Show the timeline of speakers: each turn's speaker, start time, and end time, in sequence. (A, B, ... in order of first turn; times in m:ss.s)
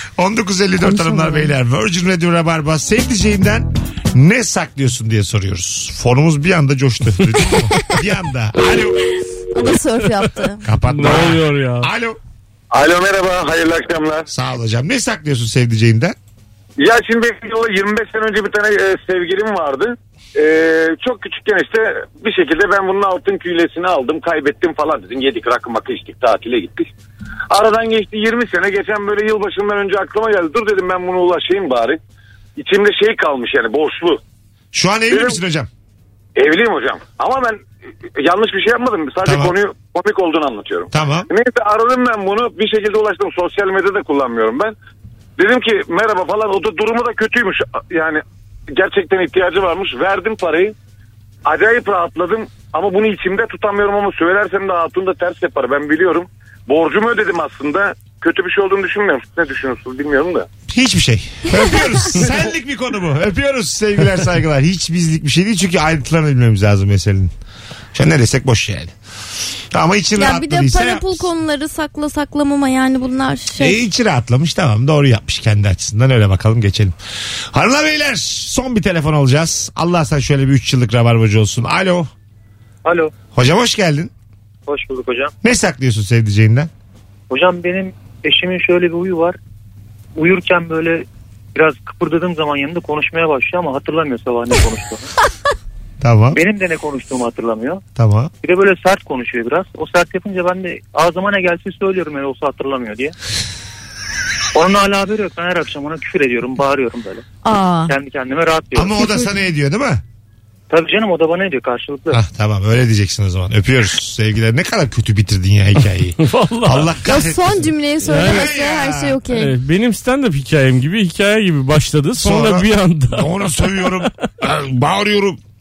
0:00.2-0:09.0 A
0:00.8-0:01.5 B
0:09.5-0:10.6 B
0:10.6-0:12.2 A
0:10.8-0:11.9 C
0:12.7-0:14.3 D
0:14.3-0:16.2 A
0:16.8-0:26.9 D
0:27.5-0:32.0 D
0:32.6-0:34.2 D
0:34.7-0:35.7 A
0:35.1-0:35.4 D
0:36.4-0:37.6 D
0:38.2-0:44.7 D
0:39.3-0:39.5 A
0:40.9-0:41.3 A
0:45.4-0:48.2 D
0:48.7-0:50.8 D
0:51.5-1:00.5 D
1:00.7-1:07.3 A
1:07.9-1:08.9 A
1:09.7-1:11.3 A
1:10.2-1:13.8 B
1:13.6-1:17.0 A
1:17.5-1:22.1 A
1:22.8-1:23.1 E
1:23.3-1:24.1 A
1:24.7-1:25.3 E
1:25.4-1:26.7 A
1:27.3-1:29.4 E
1:30.2-1:35.1 E
1:36.0-1:36.4 A
1:36.3-1:37.8 E
1:38.0-1:38.3 A
1:38.4-1:43.1 E
1:44.5-1:47.3 E
1:47.4-1:47.9 B
1:47.9-1:49.0 E
1:48.8-1:50.0 A
1:50.7-1:52.2 E
1:52.1-1:59.2 A
1:56.2-1:57.0 C
1:57.0-1:59.5 B
1:58.0-1:58.5 C
1:59.3-2:04.1 C
2:02.2-2:05.4 A